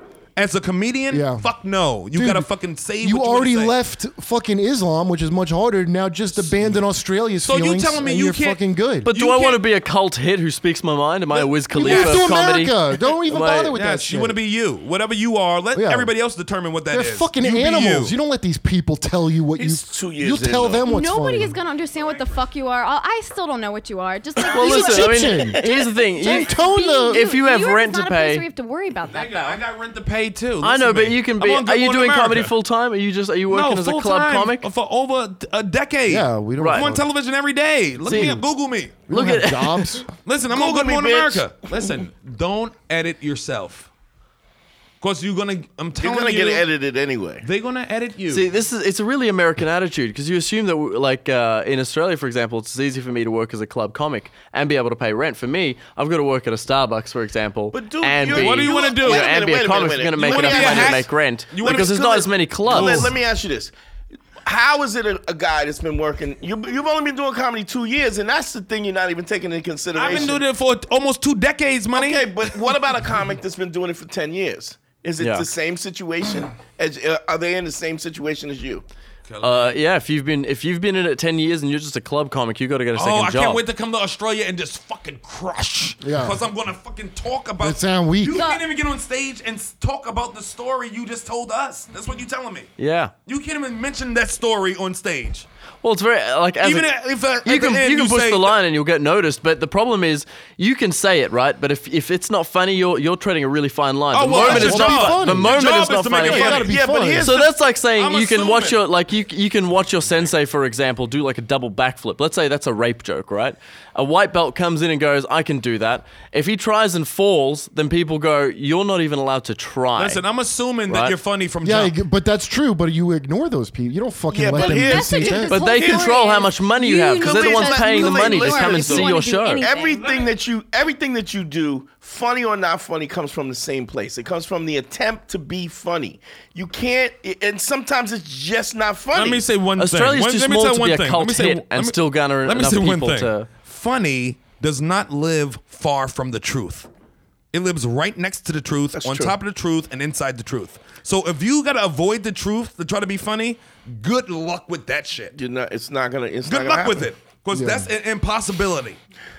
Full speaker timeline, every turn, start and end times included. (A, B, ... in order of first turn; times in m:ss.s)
0:00.4-0:03.8 A
0:01.1-0:01.5 B
0:02.1-0:02.5 B
0:03.0-0:09.1 B
0:06.4-0:06.8 A
0:07.4-0:09.6 A
0:09.0-0:13.7 C
0:11.3-0:12.6 A
0:11.7-0:14.4 B
0:13.7-0:18.1 A
0:15.7-0:16.1 B
0:16.9-0:21.5 B
0:19.6-0:20.8 D
0:20.8-0:29.6 E
0:21.9-0:22.4 A
0:24.5-0:26.5 C
0:24.6-0:25.6 B
0:25.5-0:25.8 D
0:26.2-0:27.2 B
0:27.1-0:28.4 C
0:29.1-0:32.5 A
0:30.6-0:34.7 C
0:33.5-0:39.0 A
0:36.1-0:37.0 B
0:36.6-0:36.9 C
0:38.0-0:38.4 C
0:39.1-0:40.0 C
0:39.1-0:40.1 B
0:40.2-0:43.9 A
0:40.5-0:41.8 D
0:45.0-0:46.6 A
0:46.0-0:47.4 D
0:47.4-0:48.5 A
0:48.3-1:03.1 C
0:57.7-1:01.1 D
0:58.3-0:59.3 A
1:00.2-1:03.1 A
1:01.6-1:03.7 D
1:04.4-1:10.4 D
1:09.9-1:12.3 A
1:11.9-1:18.8 D
1:15.2-1:15.5 C
1:19.3-1:19.8 A
1:19.4-1:23.6 C
1:22.9-1:32.7 A
1:26.0-1:26.4 B
1:27.6-1:28.4 B
1:28.3-1:28.6 E
1:32.8-1:33.1 C
1:33.2-1:35.4 A
1:35.8-1:36.9 C
1:36.6-1:38.6 A
1:37.4-2:00.2 C
1:44.1-1:46.8 A
1:44.3-1:47.3 B
1:46.3-1:47.4 D
1:47.3-1:48.8 A
2:00.0-2:01.9 A
2:00.9-2:01.1 C
2:01.6-2:05.6 B
2:04.3-2:06.2 D
2:04.5-2:10.3 E
2:05.5-2:09.7 C
2:07.2-2:19.4 D
2:19.1-2:26.9 A
2:19.8-2:23.5 C
2:27.5-2:35.4 A
2:28.9-2:29.3 D
2:35.3-2:37.1 D
2:36.4-2:39.0 A
2:37.5-2:37.9 B